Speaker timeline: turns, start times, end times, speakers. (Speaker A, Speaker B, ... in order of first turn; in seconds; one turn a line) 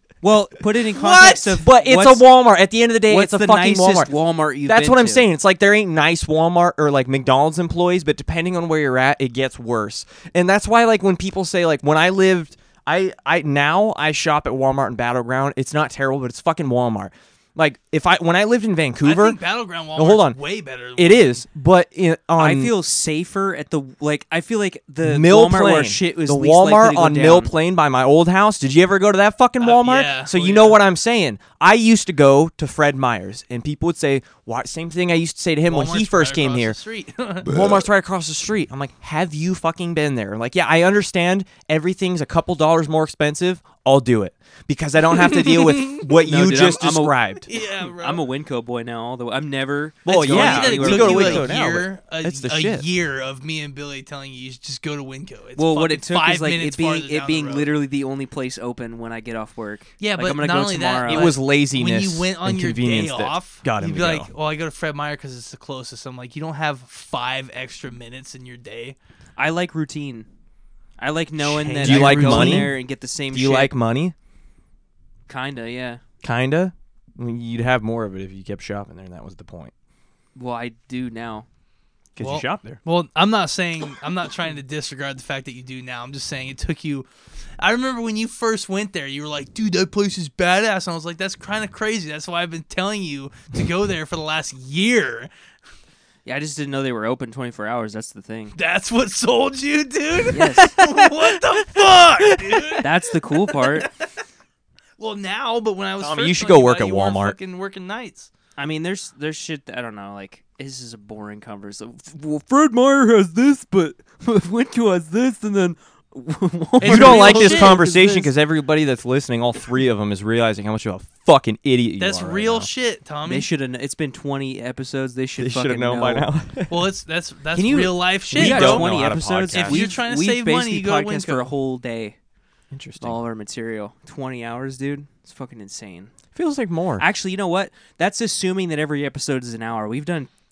Speaker A: 0.2-2.3
Speaker B: 0.9-4.1
Speaker A: 3.1-5.3
Speaker B: 4.6-19.4
Speaker C: 19.0-21.4
Speaker B: 19.9-20.4
Speaker B: 20.9-22.7
Speaker A: 22.4-27.5
Speaker B: 25.0-36.8
Speaker C: 29.6-30.8
Speaker C: 35.7-37.5
Speaker B: 37.4-47.5
Speaker C: 45.8-46.0
Speaker A: 46.1-51.5
Speaker C: 47.5-48.2
Speaker B: 50.0-52.9
Speaker C: 50.1-57.7
Speaker A: 55.6-61.3
Speaker C: 60.0-69.0
Speaker B: 61.1-64.3
Speaker A: 69.4-70.3
Speaker A: 71.0-73.7
Speaker C: 71.4-72.7
Speaker B: 71.8-72.7
Speaker B: 73.3-74.1
Speaker A: 75.3-76.0
Speaker B: 76.2-79.7
Speaker A: 80.3-81.5
Speaker B: 82.1-82.8
Speaker C: 82.2-87.1
Speaker C: 87.6-95.3
Speaker A: 96.2-98.5
Speaker C: 98.5-102.9
Speaker A: 100.3-101.0
Speaker A: 102.8-103.9
Speaker C: 103.4-104.0
Speaker C: 105.0-108.3
Speaker B: 106.0-107.3
Speaker A: 108.6-118.3
Speaker C: 116.8-117.8
Speaker B: 116.8-122.7
Speaker C: 122.0-123.5
Speaker A: 123.2-126.3
Speaker B: 125.4-126.8
Speaker C: 126.7-128.9
Speaker A: 127.5-132.2
Speaker B: 128.3-129.9
Speaker C: 129.5-131.5
Speaker B: 132.7-133.2
Speaker A: 133.0-136.1
Speaker B: 136.3-137.1
Speaker A: 137.0-140.3